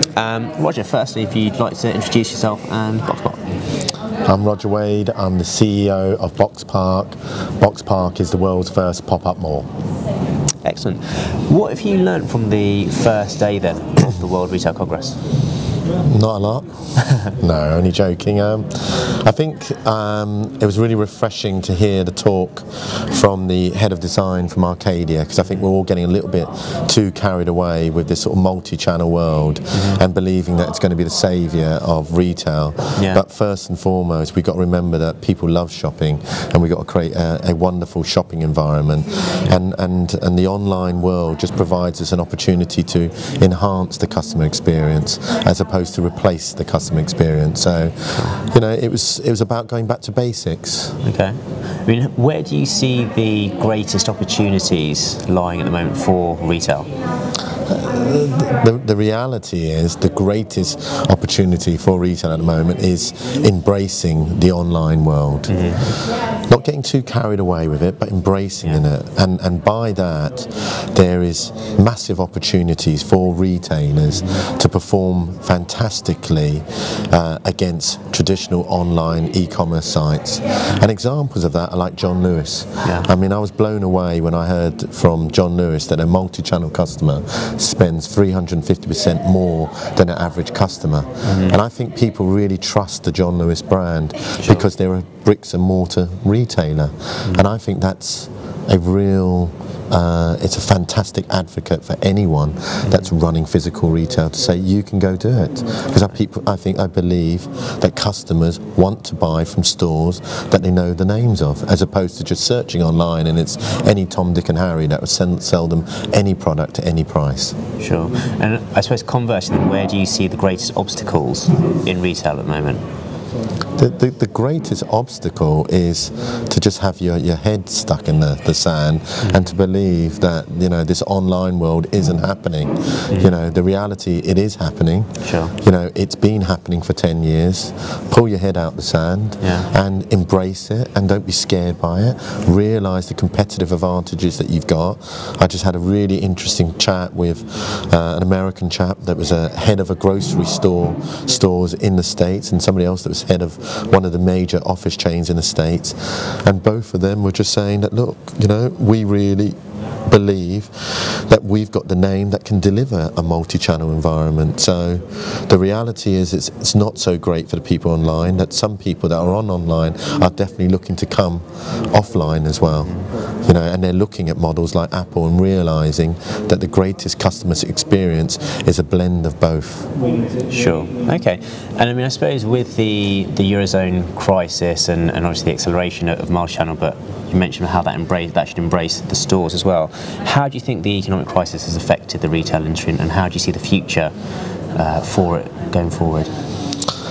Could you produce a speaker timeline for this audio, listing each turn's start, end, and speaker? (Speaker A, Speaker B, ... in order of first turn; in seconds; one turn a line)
Speaker A: 0.1-3.6
Speaker B: 4.2-9.7
Speaker A: 10.6-15.2
Speaker B: 16.1-16.7
Speaker B: 17.4-51.0
Speaker A: 29.7-30.0
Speaker A: 33.0-33.2
Speaker A: 48.1-48.4
Speaker A: 51.0-56.9
Speaker B: 57.7-117.6
Speaker A: 65.5-65.8
Speaker A: 74.1-74.4
Speaker A: 82.8-83.1
Speaker A: 91.2-91.6
Speaker A: 94.4-94.7
Speaker A: 117.8-122.8
Speaker B: 123.8-159.6
Speaker A: 129.2-129.5
Speaker A: 135.2-135.5
Speaker A: 139.4-139.7
Speaker B: 160.1-179.9
Speaker A: 180.5-194.1
Speaker A: 194.8-196.3